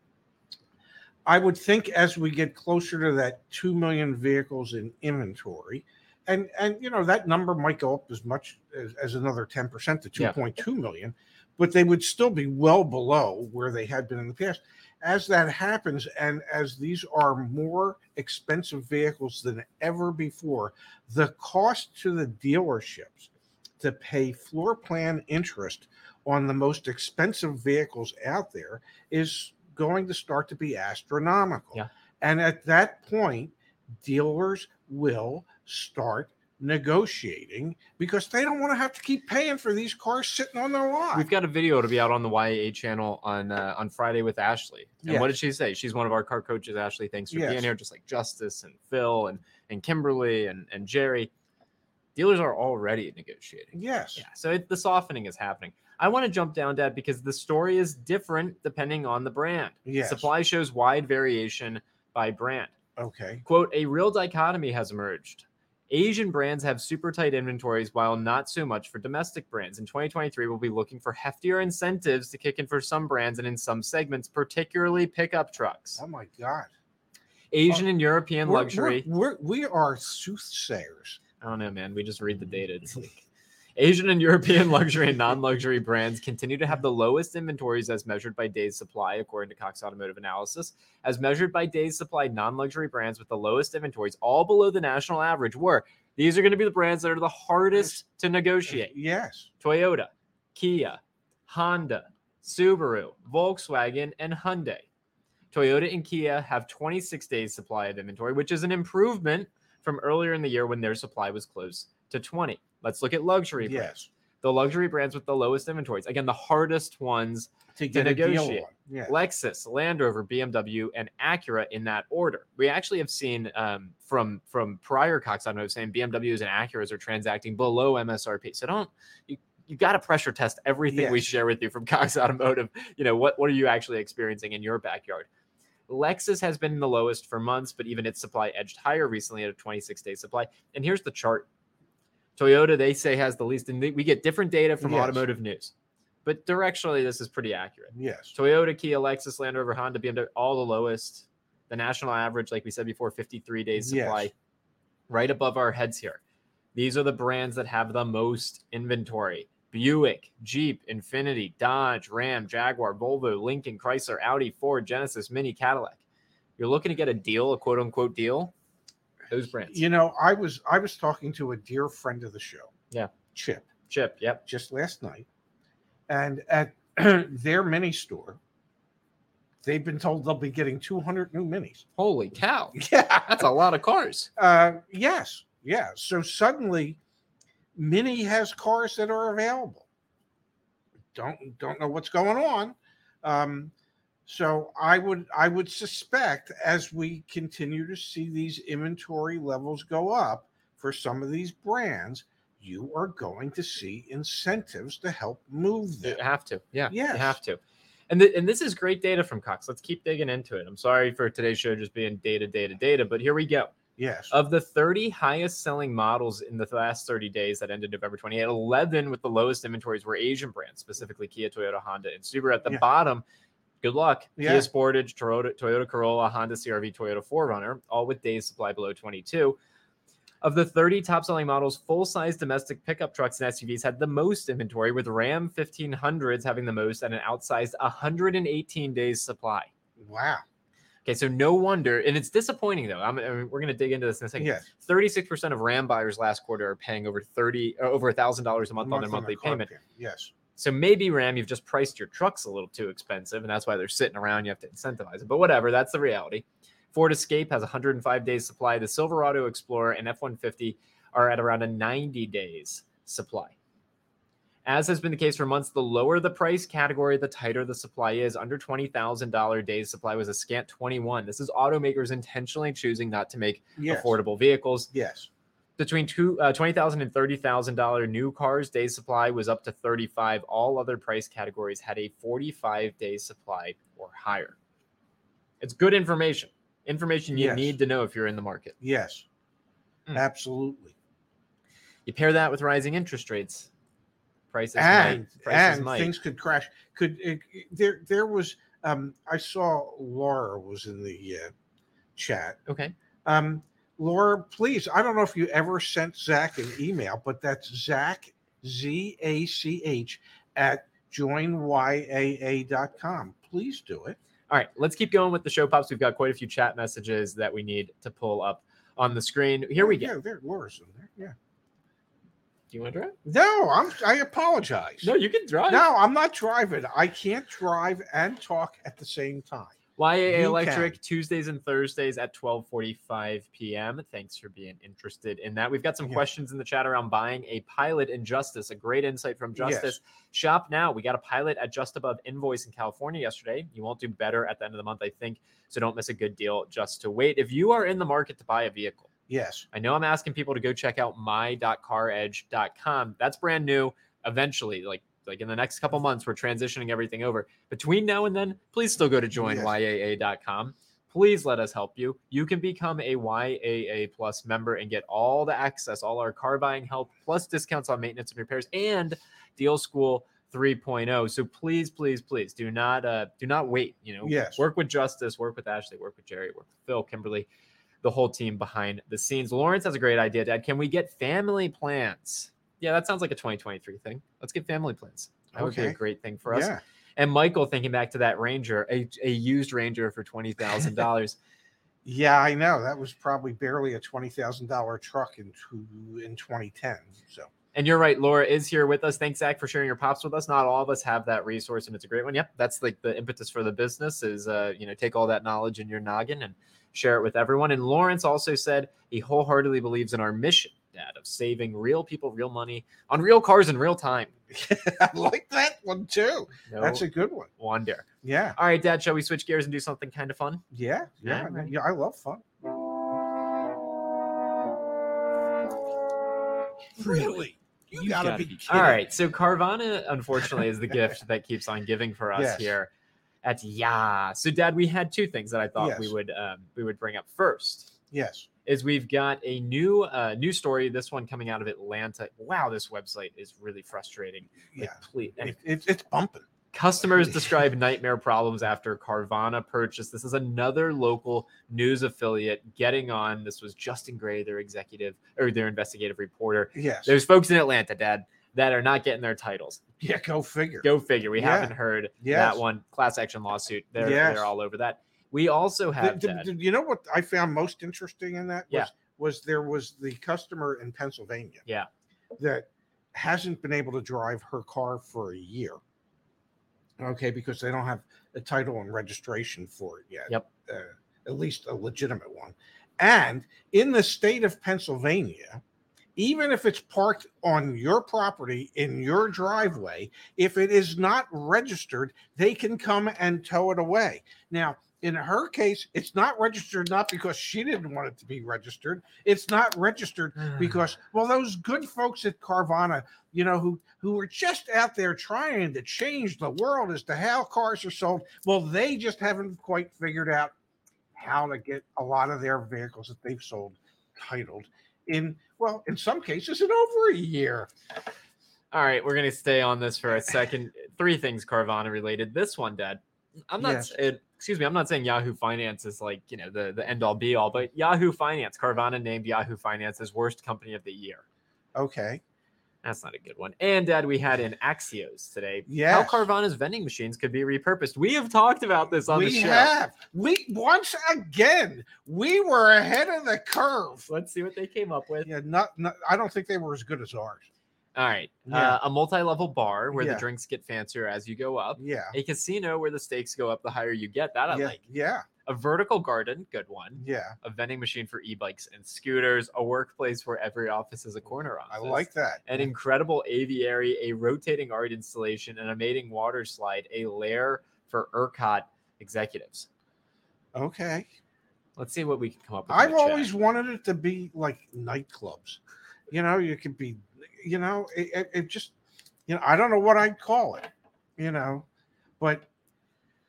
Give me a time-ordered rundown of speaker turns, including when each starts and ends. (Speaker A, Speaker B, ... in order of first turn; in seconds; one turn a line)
Speaker A: 1.3-23.3
Speaker A: 23.8-41.3
Speaker B: 41.1-51.3
Speaker A: 45.0-45.3
Speaker A: 47.3-47.7
Speaker B: 52.2-62.7
Speaker A: 53.7-54.2
Speaker A: 59.9-60.3
Speaker A: 63.0-63.4
Speaker B: 63.5-76.0
Speaker A: 76.0-76.7
Speaker B: 77.5-79.1
Speaker A: 78.4-81.2
Speaker B: 81.4-83.2
Speaker B: 83.8-98.9
Speaker A: 98.7-99.5
Speaker B: 99.6-104.9
Speaker B: 105.5-135.3
Speaker A: 113.6-114.1
Speaker A: 117.8-119.2
Speaker A: 130.9-131.2
Speaker B: 135.9-141.5
Speaker B: 142.4-145.7
Speaker A: 144.8-145.2
Speaker B: 146.2-154.3
Speaker A: 147.9-148.3
Speaker A: 153.8-154.3
Speaker B: 155.1-156.2
Speaker B: 156.8-166.0
Speaker B: 166.6-168.5
Speaker B: 169.3-169.8
Speaker A: 169.7-172.7
Speaker A: 173.3-173.7
Speaker B: 173.9-174.4
Speaker A: 174.4-175.3
Speaker A: 176.1-178.4
Speaker A: 179.6-181.8
Speaker B: 182.0-184.3
Speaker A: 182.8-183.4
Speaker A: 184.4-187.0
Speaker A: 187.8-189.9
Speaker A: 191.1-193.7
Speaker A: 194.3-206.2
Speaker B: 206.0-213.7
Speaker A: 206.9-207.4
Speaker A: 214.0-214.3
Speaker B: 214.3-223.2
Speaker B: 223.8-229.6
Speaker A: 224.4-224.7
Speaker B: 230.4-239.7
Speaker A: 240.0-240.4
Speaker B: 241.1-249.7
Speaker A: 244.4-244.7
Speaker A: 248.8-250.3
Speaker B: 250.6-263.6
Speaker B: 264.6-274.9
Speaker A: 273.8-274.2
Speaker A: 274.9-275.3
Speaker B: 275.8-284.6
Speaker B: 285.6-288.8
Speaker A: 287.3-287.7
Speaker A: 288.8-289.2
Speaker A: 290.1-290.9
Speaker B: 292.1-293.7
Speaker B: 294.5-296.1
Speaker A: 294.8-301.5
Speaker A: 302.2-302.6
Speaker B: 302.7-302.9
Speaker A: 303.2-314.2
Speaker B: 314.5-320.1
Speaker A: 319.8-321.4
Speaker B: 322.7-323.2
Speaker A: 323.2-325.1
Speaker B: 325.0-325.9
Speaker A: 325.7-329.8
Speaker B: 330.0-349.1
Speaker A: 330.3-331.0
Speaker A: 339.6-340.0
Speaker A: 349.3-349.7
Speaker B: 349.7-377.5
Speaker A: 359.4-359.7
Speaker A: 374.2-374.6
Speaker B: 378.0-391.4
Speaker A: 385.5-386.8
Speaker A: 392.1-397.5
Speaker B: 397.7-414.3
Speaker A: 414.5-417.5
Speaker B: 416.7-417.1
Speaker B: 417.6-420.6
Speaker A: 418.2-418.6
Speaker A: 420.7-422.4
Speaker B: 421.2-421.7
Speaker A: 427.0-429.0
Speaker B: 427.0-427.3
Speaker B: 427.9-432.9
Speaker A: 432.4-432.7
Speaker B: 433.4-437.9
Speaker A: 435.8-436.1
Speaker A: 438.1-438.5
Speaker B: 438.6-445.6
Speaker A: 444.7-446.5
Speaker B: 446.7-459.8
Speaker A: 456.8-457.2
Speaker A: 460.0-462.6
Speaker B: 460.8-466.5
Speaker A: 464.0-464.5
Speaker A: 466.0-471.6
Speaker A: 472.4-475.8
Speaker A: 477.0-485.6
Speaker A: 486.2-510.5
Speaker B: 500.5-500.8
Speaker A: 511.2-517.7
Speaker B: 518.7-531.2
Speaker A: 523.6-523.9
Speaker A: 531.8-532.2
Speaker B: 532.8-539.7
Speaker A: 535.7-536.3
Speaker A: 539.1-544.1
Speaker B: 544.1-545.3
Speaker A: 545.2-547.5
Speaker B: 548.0-554.8
Speaker A: 548.5-548.8
Speaker A: 549.9-550.2
Speaker A: 551.8-552.2
Speaker A: 554.5-555.3
Speaker B: 555.5-569.7
Speaker A: 557.0-557.4
Speaker A: 561.7-562.7
Speaker A: 570.5-571.1
Speaker B: 571.8-573.3
Speaker A: 572.7-575.6
Speaker A: 576.1-578.7
Speaker A: 579.3-581.6
Speaker A: 582.2-582.5